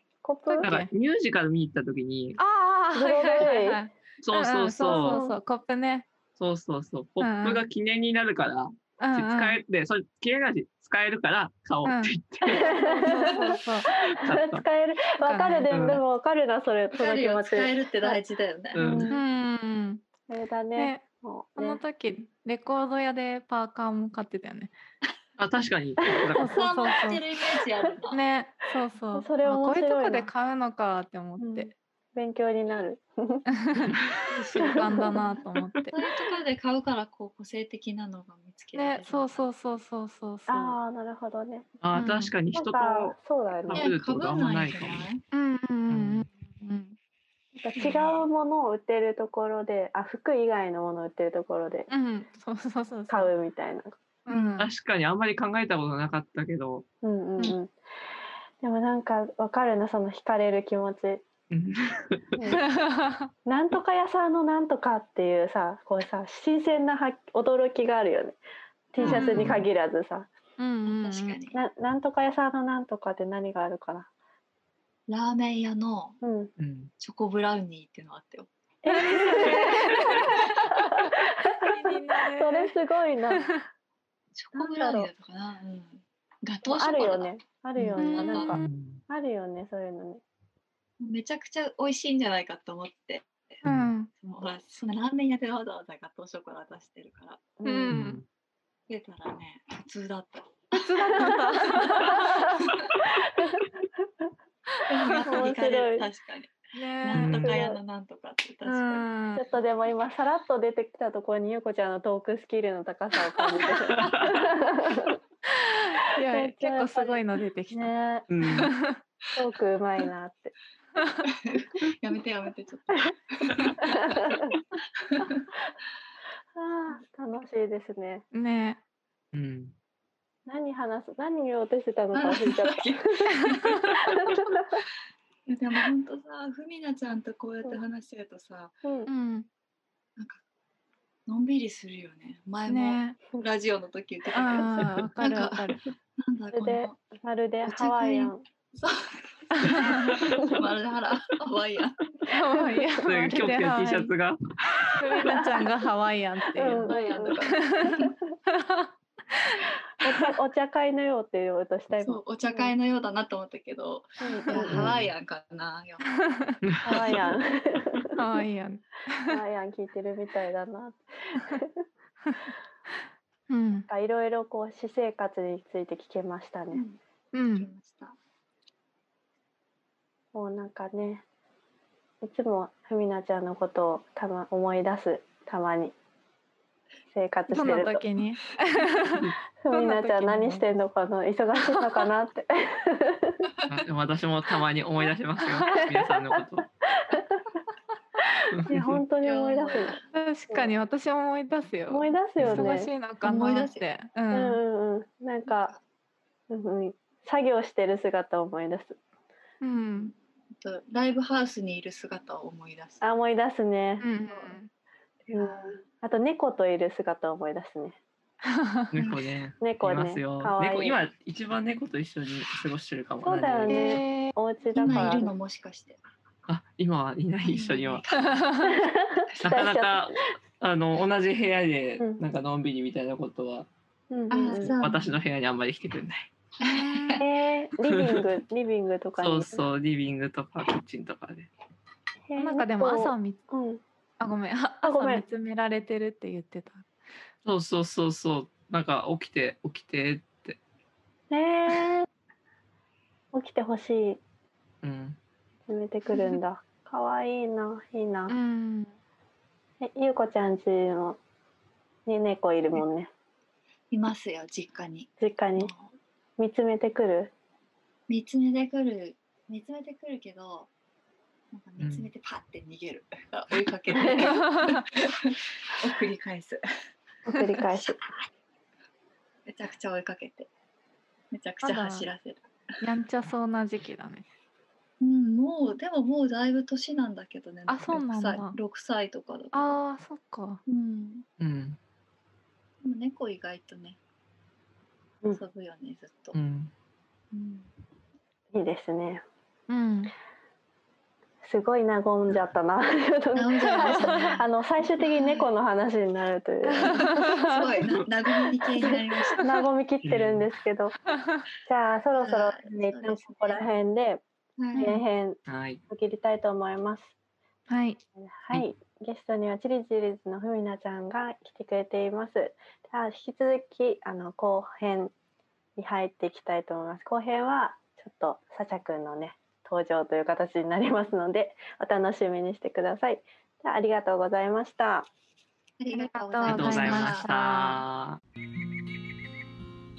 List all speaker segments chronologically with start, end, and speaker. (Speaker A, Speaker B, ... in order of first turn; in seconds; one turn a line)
Speaker A: 0.2-0.7
Speaker B: 0.5-0.9
Speaker C: 0.6-2.4
Speaker B: 2.4-6.1
Speaker A: 3.0-3.8
Speaker C: 4.2-5.2
Speaker A: 4.9-5.4
Speaker C: 6.4-13.1
Speaker B: 7.2-7.6
Speaker B: 9.0-9.6
Speaker B: 11.8-12.1
Speaker A: 12.4-18.2
Speaker B: 12.7-13.9
Speaker C: 13.9-14.6
Speaker B: 15.2-16.0
Speaker C: 15.7-16.0
Speaker D: 16.9-19.1
Speaker C: 18.7-19.1
Speaker A: 18.8-19.2
Speaker B: 19.1-20.1
Speaker A: 20.3-21.8
Speaker B: 20.8-21.0
Speaker B: 21.6-24.7
Speaker C: 25.4-26.6
Speaker A: 26.0-26.4
Speaker B: 26.4-27.2
Speaker D: 26.5-28.2
Speaker B: 28.1-31.7
Speaker A: 29.1-30.3
Speaker A: 31.4-33.5
Speaker B: 33.6-36.0
Speaker A: 34.6-35.2
Speaker D: 35.9-39.5
Speaker B: 38.8-40.8
Speaker A: 40.5-41.7
Speaker C: 41.8-45.1
Speaker B: 41.9-42.3
Speaker A: 42.5-43.9
Speaker D: 43.7-45.2
Speaker B: 45.3-47.0
Speaker C: 45.9-46.3
Speaker A: 47.5-51.9
Speaker D: 47.8-48.2
Speaker B: 51.9-53.3
Speaker A: 53.1-54.0
Speaker B: 54.3-54.7
Speaker C: 54.6-56.9
Speaker A: 57.0-57.8
Speaker A: 58.6-61.2
Speaker C: 61.5-62.4
Speaker A: 62.4-62.7
Speaker B: 62.5-63.3
Speaker A: 63.5-68.4
Speaker A: 68.9-70.3
Speaker B: 69.0-69.5
Speaker C: 69.0-69.7
Speaker B: 70.6-71.4
Speaker D: 70.8-71.6
Speaker A: 71.5-74.1
Speaker D: 75.1-76.2
Speaker A: 76.2-76.5
Speaker C: 76.6-76.9
Speaker D: 77.0-78.5
Speaker A: 78.8-83.6
Speaker B: 78.9-80.3
Speaker D: 80.3-80.7
Speaker B: 81.4-82.8
Speaker B: 83.3-83.6
Speaker D: 84.3-88.5
Speaker A: 84.5-85.1
Speaker A: 86.7-90.2
Speaker B: 88.0-88.7
Speaker C: 88.5-89.0
Speaker D: 91.0-97.5
Speaker C: 93.6-93.9
Speaker B: 93.6-94.1
Speaker A: 97.6-98.0
Speaker B: 97.7-98.2
Speaker C: 97.9-98.2
Speaker D: 98.9-102.9
Speaker B: 100.7-102.5
Speaker A: 101.2-103.7
Speaker B: 104.8-105.5
Speaker D: 104.9-109.1
Speaker A: 105.3-106.1
Speaker B: 106.7-107.4
Speaker C: 107.1-107.5
Speaker A: 107.4-107.8
Speaker B: 108.7-109.5
Speaker A: 109.3-115.2
Speaker C: 114.0-114.4
Speaker B: 115.5-119.0
Speaker A: 116.2-118.3
Speaker C: 118.3-118.7
Speaker A: 119.3-120.5
Speaker D: 121.4-124.4
Speaker A: 123.8-124.6
Speaker D: 125.0-125.5
Speaker A: 126.6-128.2
Speaker B: 128.3-128.8
Speaker C: 129.3-129.8
Speaker A: 130.5-133.3
Speaker D: 132.1-133.8
Speaker A: 134.0-134.8
Speaker D: 135.5-138.8
Speaker A: 138.8-139.1
Speaker B: 139.1-139.5
Speaker D: 141.3-147.0
Speaker B: 142.7-143.2
Speaker B: 144.3-145.9
Speaker A: 146.5-148.4
Speaker D: 147.7-152.0
Speaker B: 149.6-150.1
Speaker C: 149.6-150.6
Speaker B: 152.3-154.1
Speaker C: 153.0-155.0
Speaker B: 154.9-158.9
Speaker A: 155.2-155.7
Speaker A: 156.6-158.2
Speaker D: 156.7-158.1
Speaker B: 159.5-160.2
Speaker A: 160.0-162.8
Speaker D: 162.0-166.1
Speaker A: 164.2-164.8
Speaker C: 164.7-165.1
Speaker B: 166.3-166.6
Speaker C: 166.6-167.3
Speaker A: 166.8-168.2
Speaker B: 168.2-169.3
Speaker A: 169.3-171.8
Speaker B: 173.5-173.9
Speaker A: 173.9-176.8
Speaker D: 176.7-177.0
Speaker B: 177.3-177.7
Speaker D: 177.5-178.2
Speaker A: 180.3-181.2
Speaker A: 182.2-185.9
Speaker A: 187.1-188.1
Speaker B: 187.5-190.6
Speaker A: 189.6-193.5
Speaker C: 193.7-196.7
Speaker B: 195.4-195.8
Speaker A: 197.1-197.4
Speaker A: 198.4-200.0
Speaker C: 198.5-199.0
Speaker D: 199.2-200.1
Speaker B: 200.1-204.6
Speaker A: 201.9-202.9
Speaker C: 202.4-202.7
Speaker D: 203.2-203.9
Speaker A: 204.3-205.7
Speaker D: 205.5-205.8
Speaker A: 206.5-209.0
Speaker B: 209.6-210.1
Speaker D: 210.6-213.0
Speaker A: 213.0-214.5
Speaker B: 214.0-214.7
Speaker A: 215.3-218.0
Speaker D: 215.3-215.8
Speaker B: 218.5-218.9
Speaker C: 218.9-224.0
Speaker D: 218.9-219.2
Speaker A: 219.6-221.0
Speaker A: 223.2-225.3
Speaker B: 223.7-224.4
Speaker D: 224.8-226.0
Speaker C: 226.5-228.0
Speaker D: 227.4-229.6
Speaker B: 228.4-228.7
Speaker A: 228.7-230.2
Speaker C: 229.4-233.7
Speaker A: 234.1-234.8
Speaker D: 234.3-235.2
Speaker C: 234.8-236.3
Speaker D: 236.6-237.2
Speaker B: 236.6-237.2
Speaker A: 237.2-239.6
Speaker C: 237.9-238.2
Speaker C: 239.2-241.5
Speaker A: 242.3-243.8
Speaker B: 242.4-243.4
Speaker B: 244.2-246.9
Speaker A: 244.8-245.2
Speaker C: 247.4-250.6
Speaker A: 251.3-252.1
Speaker A: 253.3-254.2
Speaker C: 254.8-255.2
Speaker A: 255.7-258.4
Speaker B: 258.3-258.9
Speaker A: 259.8-261.2
Speaker A: 262.1-263.1
Speaker D: 263.9-265.9
Speaker A: 265.2-265.7
Speaker A: 266.4-267.3
Speaker D: 268.1-270.7
Speaker D: 271.5-276.6
Speaker C: 271.8-272.1
Speaker A: 273.9-274.3
Speaker B: 274.5-274.8
Speaker A: 277.3-278.0
Speaker D: 277.6-278.3
Speaker D: 279.5-280.5
Speaker D: 281.3-282.4
Speaker B: 281.6-282.1
Speaker B: 282.8-284.3
Speaker D: 285.0-289.7
Speaker B: 287.7-288.6
Speaker B: 289.5-290.6
Speaker D: 290.7-291.3
Speaker C: 291.4-291.8
Speaker D: 292.8-294.0
Speaker D: 295.3-296.4
Speaker C: 296.3-296.7
Speaker D: 297.3-297.7
Speaker A: 298.5-299.2
Speaker B: 299.7-300.1
Speaker A: 301.4-307.2
Speaker D: 303.4-305.5
Speaker B: 306.7-307.6
Speaker D: 307.0-309.6
Speaker A: 308.8-311.0
Speaker C: 310.0-310.5
Speaker A: 311.6-314.2
Speaker D: 312.1-313.6
Speaker D: 314.6-315.0
Speaker B: 314.8-315.0
Speaker A: 314.8-317.1
Speaker C: 315.5-315.8
Speaker B: 317.7-318.0
Speaker A: 318.2-325.1
Speaker A: 325.8-335.1
Speaker D: 335.8-337.2
Speaker B: 335.9-337.8
Speaker C: 336.4-338.2